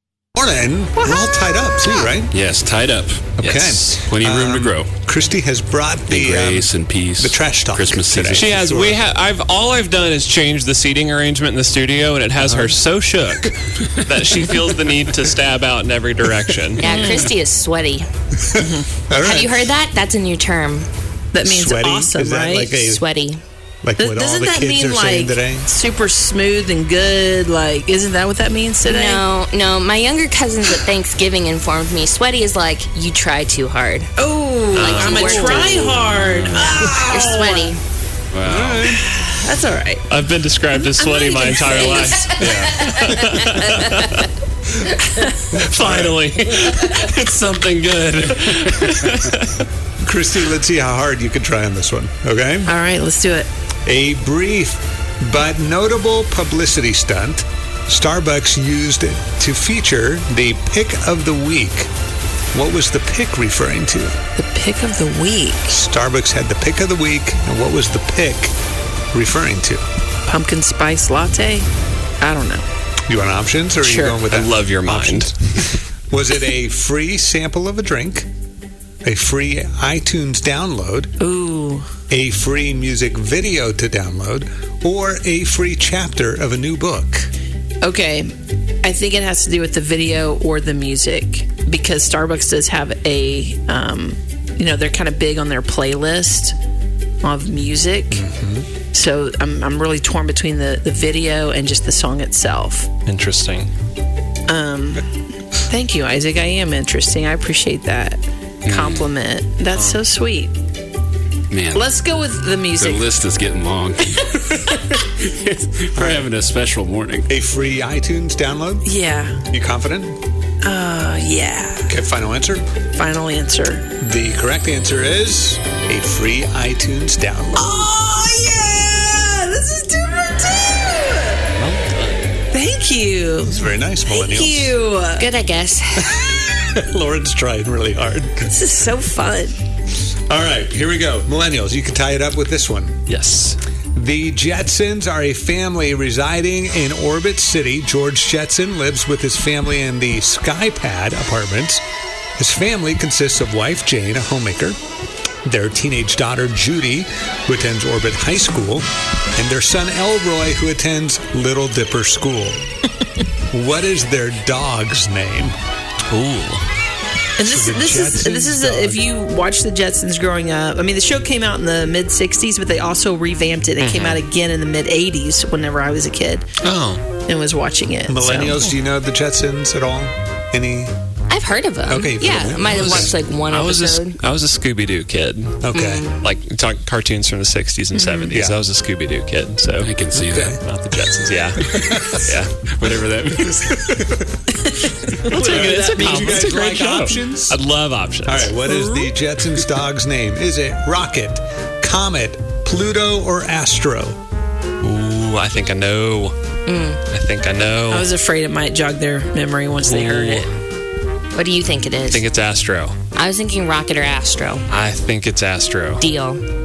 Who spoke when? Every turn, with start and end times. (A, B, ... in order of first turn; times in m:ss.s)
0:00.4-0:02.3 A
0:01.8-0:03.4 B
0:03.4-0:09.0 A
0:03.4-0:04.0 C
0:04.1-0:04.9 B
0:06.1-0:08.6 B
0:08.3-0:16.9 C
0:12.4-0:12.8 A
0:16.8-0:18.1 D
0:16.8-0:17.3 E
0:18.4-0:19.6 A
0:18.6-0:18.9 E
0:19.2-0:20.9 D
0:21.3-0:22.9 E
0:21.4-0:23.0 A
0:22.8-0:23.4 D
0:23.8-0:25.7 A
0:24.0-0:29.2 E
0:28.8-0:34.1 D
0:34.2-0:37.7 E
0:34.7-0:35.7 C
0:34.8-0:37.8 D
0:36.1-0:36.8 B
0:38.3-0:39.0 B
0:38.4-0:39.1 A
0:38.9-0:40.0 E
0:40.1-0:44.3 C
0:40.7-0:42.6 E
0:41.6-0:44.3 D
0:42.4-0:42.9 B
0:43.6-0:43.9 E
0:45.0-0:45.4 E
0:45.5-0:46.1 A
0:45.5-0:49.6 C
0:50.0-0:52.7 A
0:52.6-0:53.5 E
0:53.8-1:01.9 A
1:02.5-1:04.2 A
1:04.4-1:05.8 E
1:05.7-1:08.5 A
1:09.1-1:09.8 A
1:10.2-1:11.7 E
1:12.2-1:12.6 E
1:13.1-1:18.3 A
1:13.8-1:14.2 E
1:14.3-1:15.3 C
1:19.0-1:21.1 A
1:21.2-1:21.8 E
1:22.1-1:27.3 A
1:27.8-1:28.3 E
1:28.8-1:36.5 E
1:37.2-1:38.2 E
1:38.1-1:38.7 A
1:38.9-1:42.9 E
1:43.0-1:43.7 C
1:44.5-1:45.1 E
1:45.7-1:50.5 E
1:48.6-1:49.1 B
1:49.7-1:50.0 C
1:51.5-1:51.9 B
1:51.7-1:53.1 E
1:52.8-1:57.3 B
1:55.9-1:56.2 A
1:57.3-1:58.9 A
1:58.8-1:59.4 E
1:59.5-2:00.2 A
2:00.6-2:01.9 E
2:01.9-2:02.6 A
2:02.9-2:03.8 E
2:04.0-2:07.9 A
2:07.6-2:11.5 E
2:11.5-2:12.3 C
2:12.5-2:15.3 E
2:13.4-2:14.8 A
2:15.1-2:16.1 D
2:16.0-2:18.6 A
2:18.5-2:19.5 E
2:20.3-2:23.0 A
2:23.1-2:23.6 C
2:23.9-2:31.8 A
2:32.4-2:34.8 A
2:35.4-2:42.6 A
2:43.5-2:45.5 A
2:46.1-2:46.7 C
2:47.4-2:56.4 E
2:47.4-2:49.0 A
2:53.8-2:54.2 C
2:56.6-2:57.0 C
2:57.3-2:58.6 E
2:58.0-3:00.9 A
3:01.3-3:04.2 D
3:01.9-3:03.1 A
3:02.6-3:05.6 C
3:05.6-3:06.1 A
3:05.7-3:06.2 D
3:06.2-3:12.5 C
3:07.9-3:08.3 E
3:08.3-3:08.6 A
3:09.8-3:10.6 B
3:10.2-3:10.6 A
3:11.7-3:12.1 B
3:11.8-3:12.3 A
3:12.7-3:14.2 B
3:14.5-3:16.5 E
3:15.3-3:18.5 C
3:15.3-3:17.6 A
3:18.2-3:24.2 A
3:18.6-3:19.1 E
3:24.8-3:26.4 C
3:26.6-3:27.0 D
3:27.1-3:28.1 C
3:27.9-3:30.5 E
3:29.8-3:30.5 C
3:31.3-3:32.3 D
3:32.1-3:33.0 C
3:33.1-3:34.7 D
3:34.7-3:36.0 C
3:36.0-3:36.4 D